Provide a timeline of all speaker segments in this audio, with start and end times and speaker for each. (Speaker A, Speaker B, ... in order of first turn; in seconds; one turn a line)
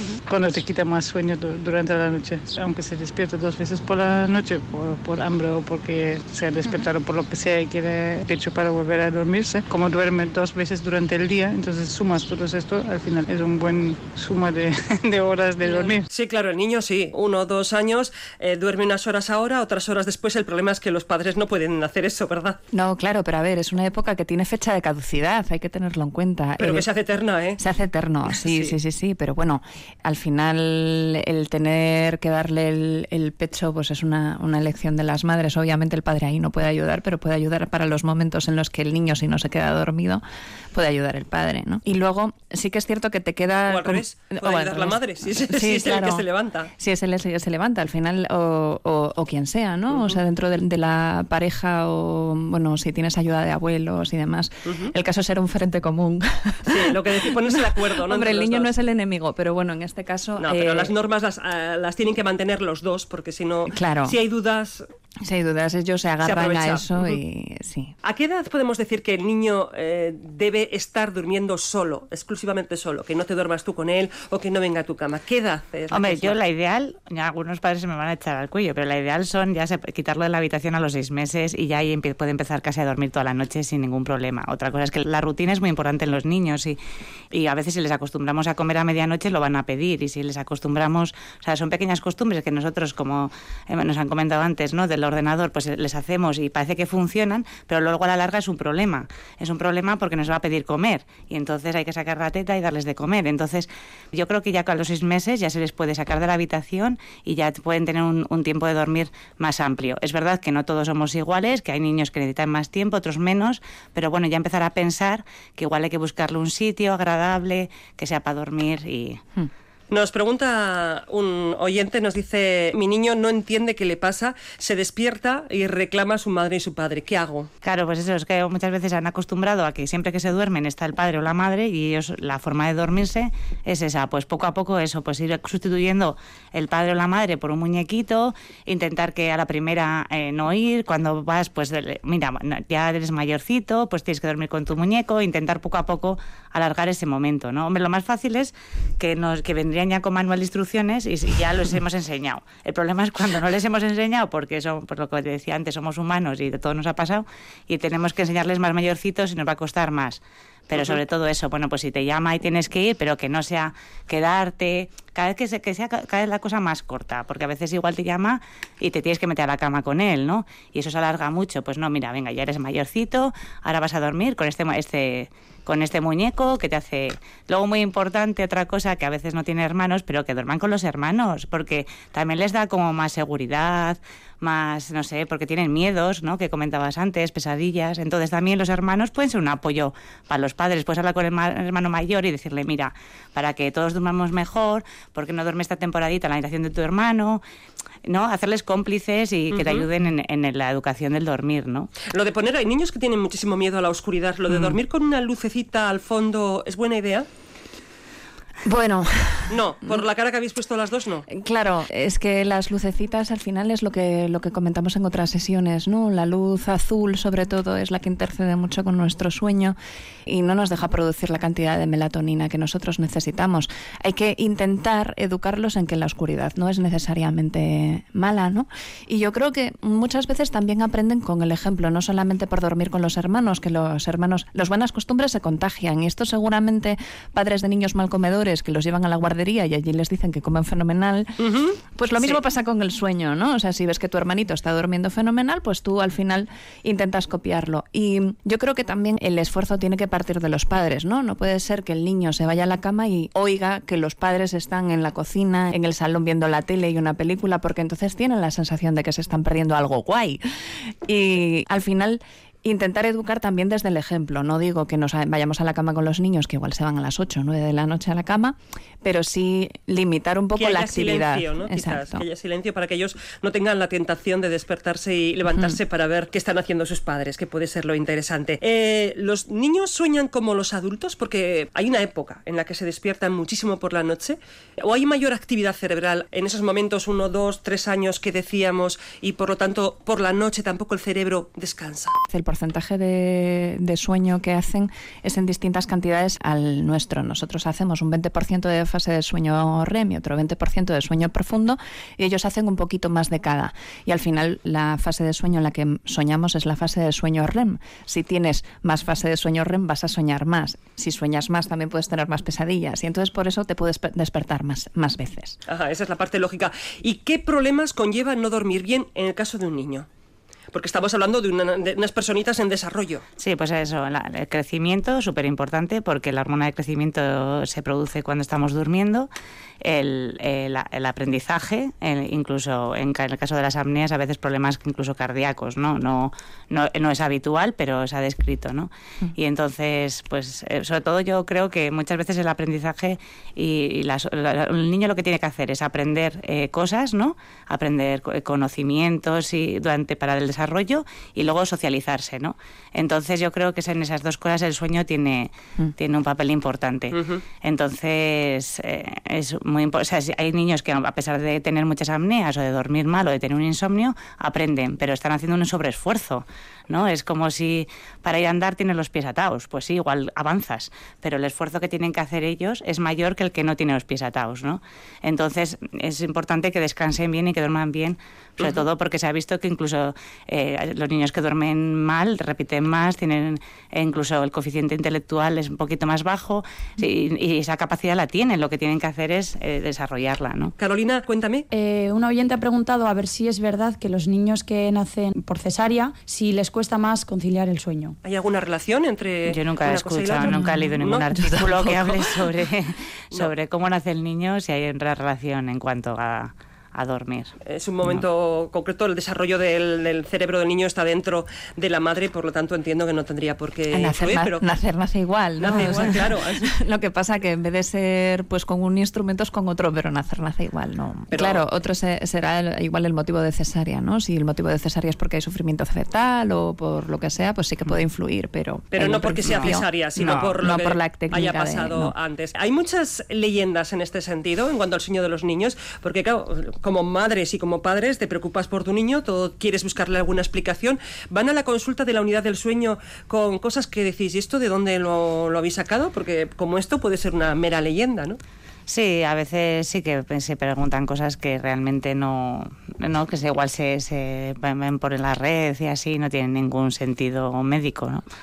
Speaker A: 0.2-16.0
Speaker B: 16.1-22.6
Speaker C: 22.7-26.8
Speaker B: 26.6-27.6
Speaker C: 27.6-40.2
Speaker B: 28.3-28.7
Speaker C: 40.7-46.2
Speaker B: 43.7-46.7
Speaker C: 46.8-60.9
Speaker B: 54.7-54.9
Speaker B: 56.6-58.7
Speaker B: 60.4-64.8
Speaker C: 63.7-64.2
Speaker C: 65.2-67.9
Speaker B: 66.2-67.1
Speaker B: 68.0-76.3
Speaker D: 75.9-86.8
Speaker D: 87.3-119.2
Speaker B: 119.9-127.5
Speaker D: 127.6-197.4
Speaker D: 198.0-201.9
Speaker B: 199.5-199.8
Speaker B: 202.1-207.3
Speaker C: 208.6-209.9
Speaker B: 209.5-211.3
Speaker C: 211.3-241.4
Speaker B: 241.4-242.4
Speaker C: 241.9-272.2
Speaker B: 270.6-292.2
Speaker C: 292.3-315.6
Speaker B: 315.7-320.1
Speaker B: 320.7-323.2
Speaker D: 323.4-329.3
Speaker D: 329.8-390.7
Speaker B: 357.1-357.4
Speaker B: 390.8-391.6
Speaker E: 391.7-398.1
Speaker B: 398.2-402.0
Speaker D: 399.5-407.5
Speaker C: 400.5-401.6
Speaker B: 407.6-414.6
Speaker C: 413.9-432.1
Speaker B: 415.6-416.7
Speaker B: 421.3-421.6
Speaker B: 428.9-448.4
Speaker D: 430.2-430.6
Speaker D: 448.9-458.2